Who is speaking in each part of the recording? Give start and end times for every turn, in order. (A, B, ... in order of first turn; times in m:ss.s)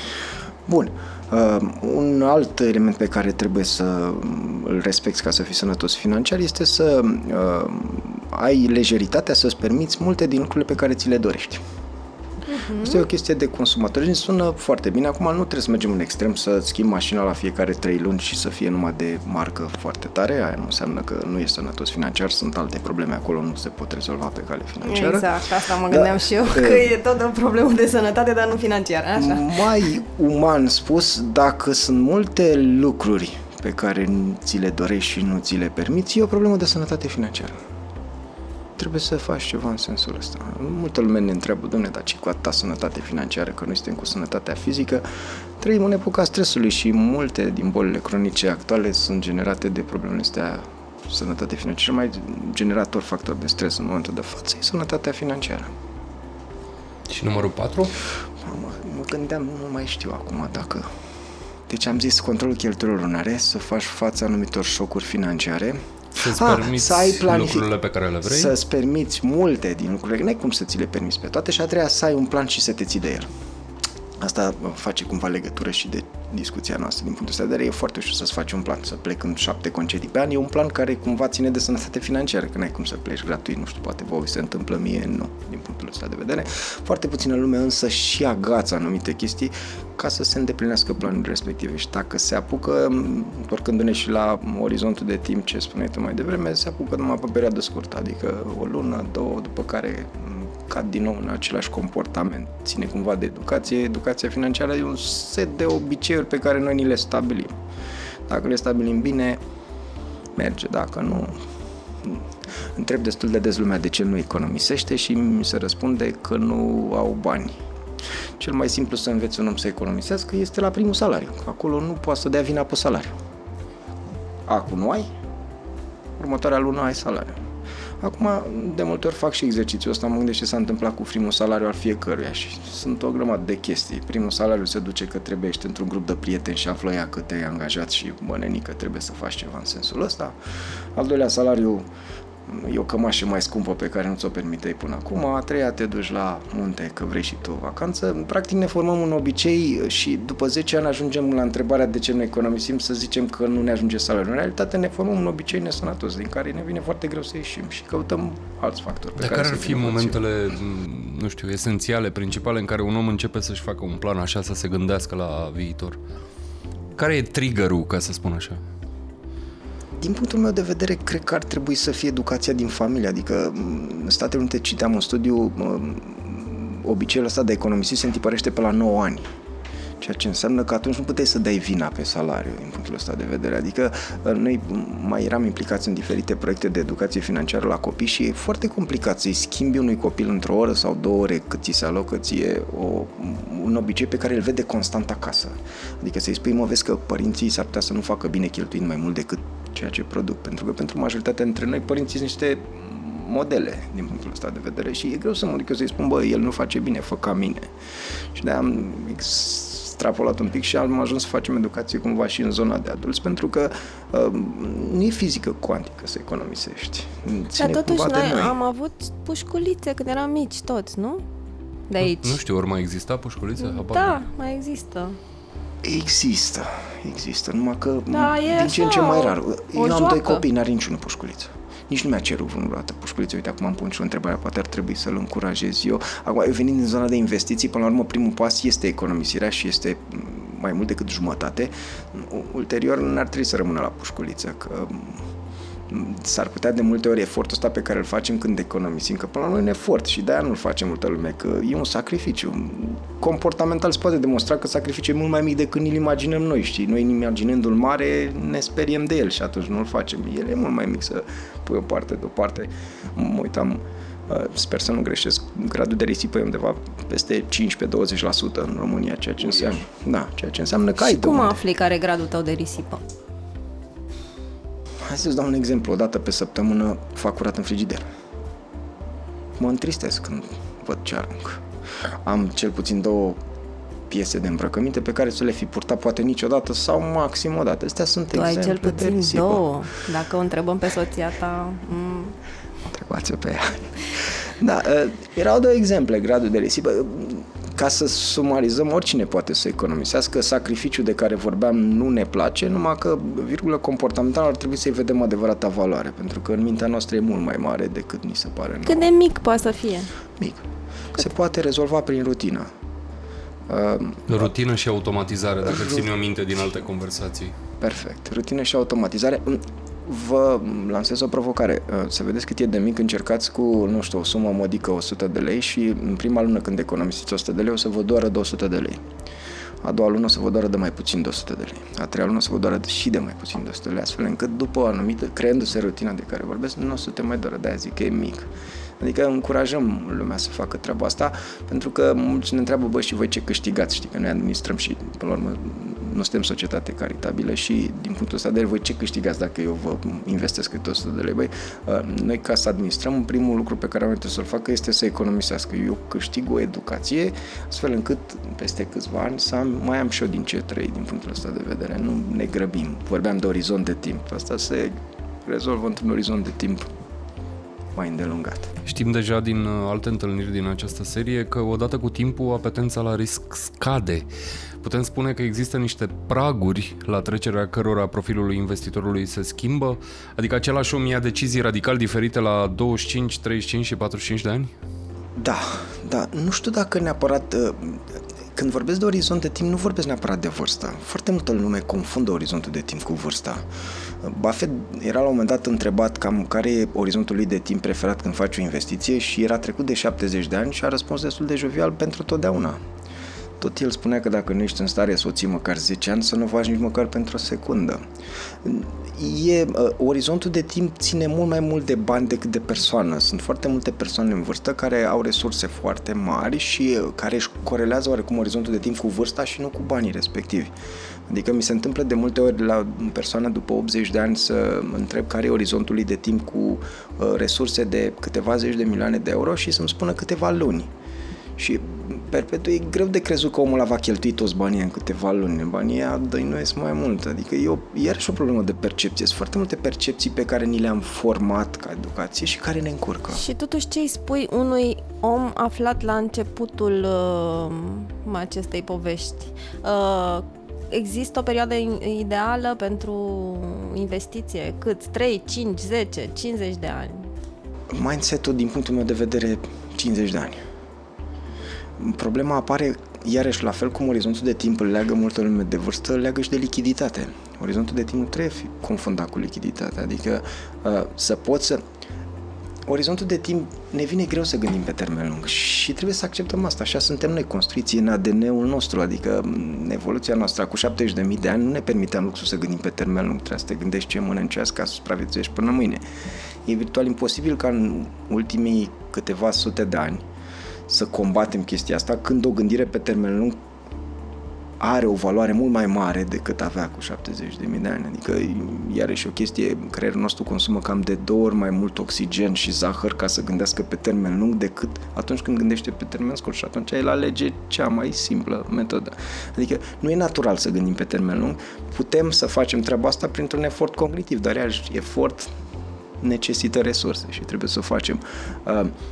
0:00.7-0:11.6 A
0:12.5-0:13.0 B
0:12.8-0:26.9 A
0:24.8-0:29.8 B
0:29.2-0:37.6 A
0:38.8-0:45.0 A
0:45.6-0:55.7 A
0:57.1-0:58.0 C
0:58.4-1:00.9 A
1:01.7-1:07.7 A
1:06.2-1:08.6 C
1:08.2-1:13.3 A
1:14.2-1:47.5 A
1:48.3-1:49.4 A
1:50.4-1:51.4 A
1:52.0-1:57.6 A
1:58.4-2:03.2 A
2:04.5-2:05.1 A
2:06.2-2:07.4 A
2:08.0-2:20.4 A
2:21.0-2:21.8 A
2:22.5-2:40.2 A
2:39.2-2:46.0 C
2:47.0-2:48.6 C
2:50.0-2:59.3 A
3:00.0-3:27.7 A
3:28.3-3:38.6 A
3:37.6-3:41.2 B
3:41.9-3:42.4 B
3:42.0-3:44.2 C
3:43.6-3:45.2 B
3:45.8-4:05.3 A
3:48.1-3:50.4 B
4:05.9-4:31.6 A
4:31.0-4:33.0 B
4:35.0-4:38.1 A
4:39.6-4:43.4 A
4:44.1-4:49.6 A
4:48.3-4:52.4 B
4:52.9-5:09.1 A
5:08.8-5:10.1 B
5:10.4-5:12.7 A
5:13.7-5:14.5 A
5:14.3-5:17.5 C
5:17.8-5:29.0 A
5:29.8-5:38.5 A
5:39.0-6:06.9 A
6:08.0-6:08.8 A
6:08.9-6:14.3 C
6:14.8-6:24.7 C
6:25.4-6:33.7 A
6:34.2-6:42.8 A
6:43.6-6:48.0 A
6:48.6-7:00.7 A
7:01.3-7:10.9 A
7:11.6-7:23.4 A
7:23.3-7:37.3 B
7:37.9-7:40.6 A
7:42.0-7:51.8 A
7:52.9-8:06.0 A
8:06.6-8:10.2 A
8:10.9-8:13.6 A
8:14.8-8:35.5 A
8:36.2-8:38.9 A